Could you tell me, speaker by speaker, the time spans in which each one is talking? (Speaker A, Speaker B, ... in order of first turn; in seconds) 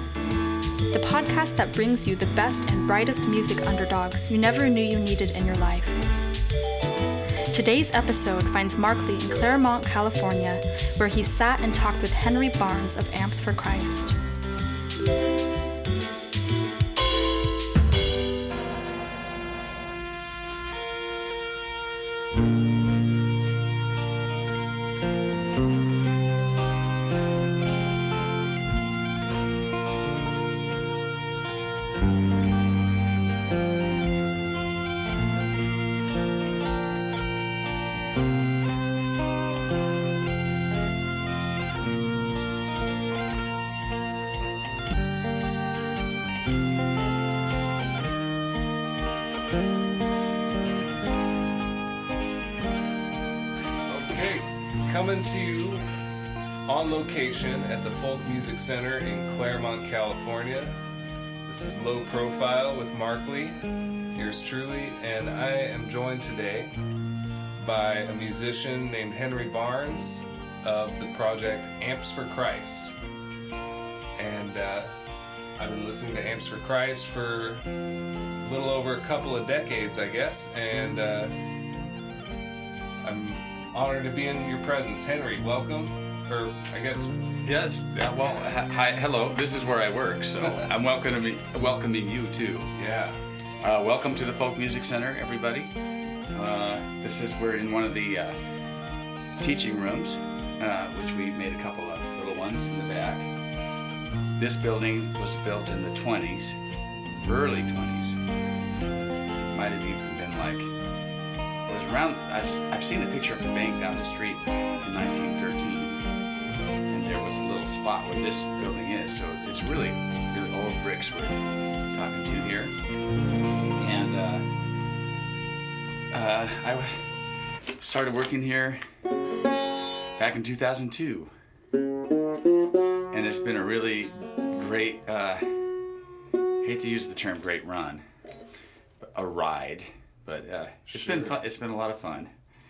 Speaker A: 0.9-6.0, 7.5-14.2
Speaker B: 53.9-55.9, 56.7-60.8, 61.5-63.6, 64.1-66.7, 67.6-72.9, 74.2-74.9, 75.6-77.7, 78.4-81.3, 83.0-87.1, 92.8-93.2, 140.9-141.3
Speaker C: 87.4-92.7, 93.6-95.7, 96.3-98.4, 99.4-103.3, 104.4-108.2, 109.5-110.7, 111.7-116.0, 116.9-122.8, 123.8-124.5, 126.1-127.1, 127.8-128.8, 130.2-131.3, 133.1-135.6, 136.6-138.0, 139.0-142.3